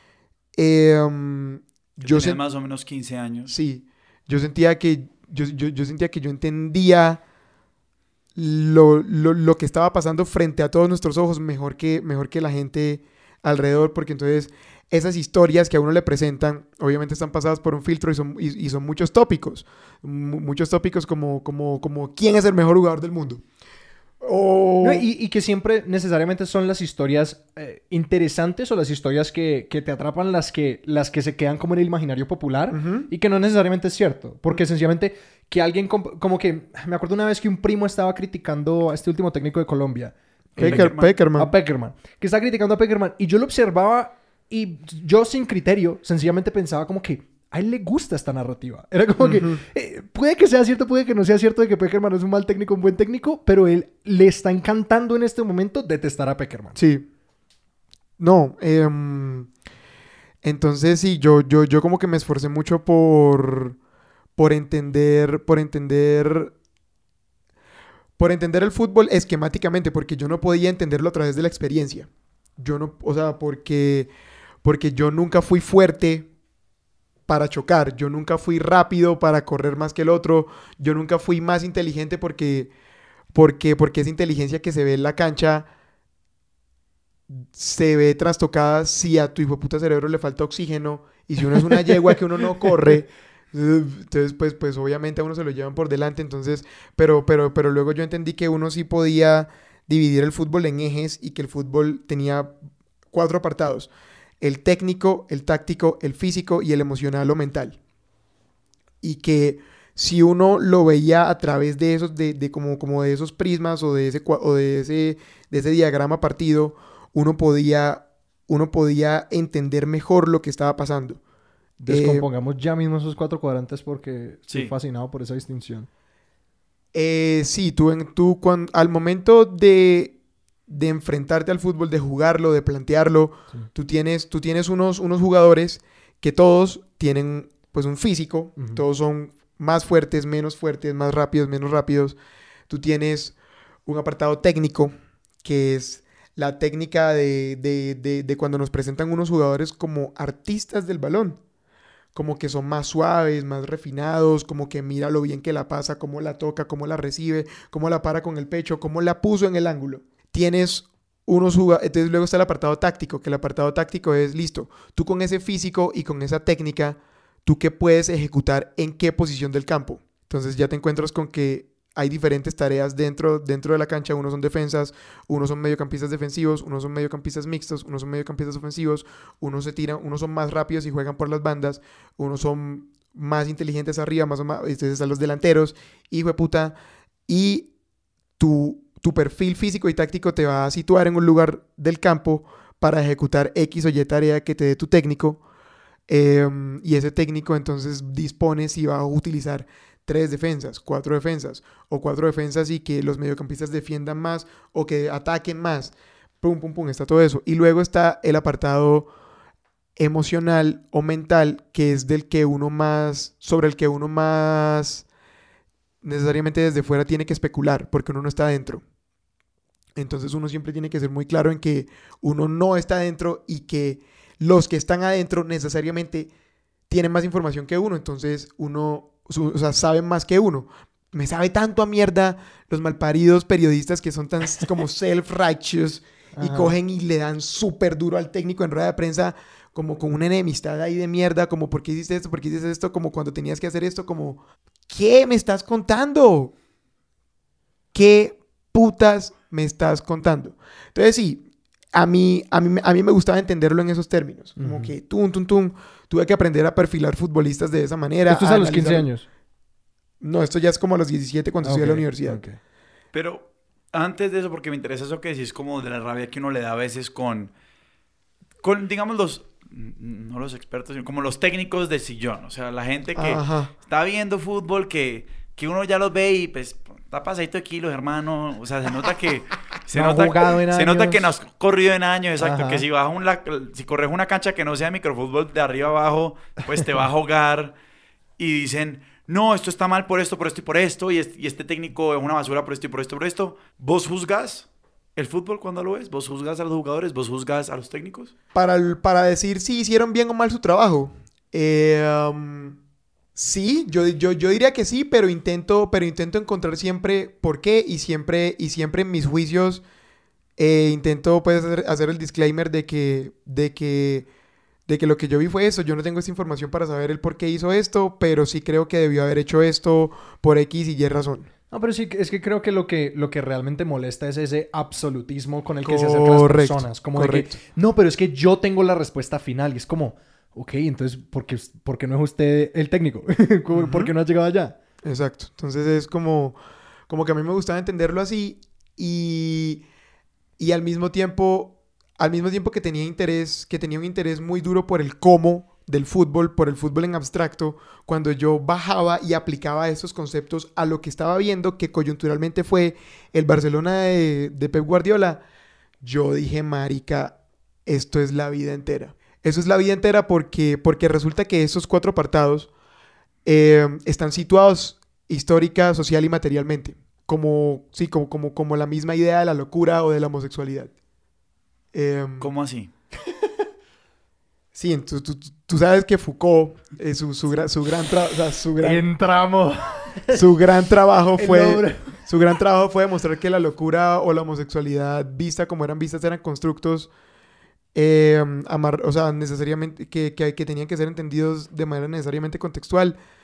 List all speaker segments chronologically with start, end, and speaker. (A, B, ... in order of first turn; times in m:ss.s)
0:00.6-0:02.4 A
0:02.0-0:03.5 B
0:03.5-0:07.2 A
0:08.4-0:23.4 A
0:24.2-0:25.1 A
0:24.8-0:56.8 C
0:32.7-0:33.1 A
0:40.6-0:41.5 A
0:40.6-0:41.1 B
0:49.2-0:49.6 A
0:56.7-0:57.0 A
0:58.2-0:59.5 A
1:00.4-1:03.8 A
1:04.4-1:06.5 A
1:08.2-1:14.1 A
1:14.6-1:16.3 A
1:17.3-1:22.7 A
1:23.3-1:25.7 A
1:27.3-1:42.5 A
1:43.1-1:47.8 A
1:49.0-2:01.2 A
2:01.8-2:05.9 C
2:01.9-2:02.2 A
2:06.9-2:10.2 A
2:10.7-2:22.2 A
2:18.6-2:18.8 C
2:22.7-2:23.3 A
2:23.8-2:24.9 A
2:25.4-2:31.4 A
2:32.1-3:06.8 A
3:07.3-3:07.7 A
3:08.4-3:15.4 A
3:16.1-3:29.1 A
3:30.0-3:35.0 A
3:36.0-3:38.8 A
3:39.9-3:46.3 A
3:46.9-4:06.5 A
3:56.4-3:56.7 C
4:07.9-4:19.1 A
4:14.6-4:14.9 C
4:18.3-4:19.2 C
4:20.2-4:22.4 A
4:21.6-4:22.6 C
4:23.1-4:27.5 B
4:28.6-4:47.7 B
4:33.1-4:33.7 A
4:39.9-4:41.3 C
4:42.4-4:42.8 C
4:48.4-4:58.3 B
4:58.5-5:02.8 A
5:03.3-5:09.8 A
5:10.6-5:14.3 A
5:14.9-5:21.5 A
5:21.7-5:34.8 C
5:25.8-5:27.6 A
5:33.7-5:34.1 A
5:35.0-5:36.6 A
5:37.1-5:39.8 A
5:40.6-5:55.4 A
5:56.0-6:02.7 A
6:03.4-6:10.9 A
6:11.9-6:12.5 A
6:12.4-6:12.9 B
6:14.7-6:19.1 A
6:18.8-6:20.4 C
6:20.3-6:27.1 A
6:21.4-6:22.2 C
6:27.9-6:33.2 A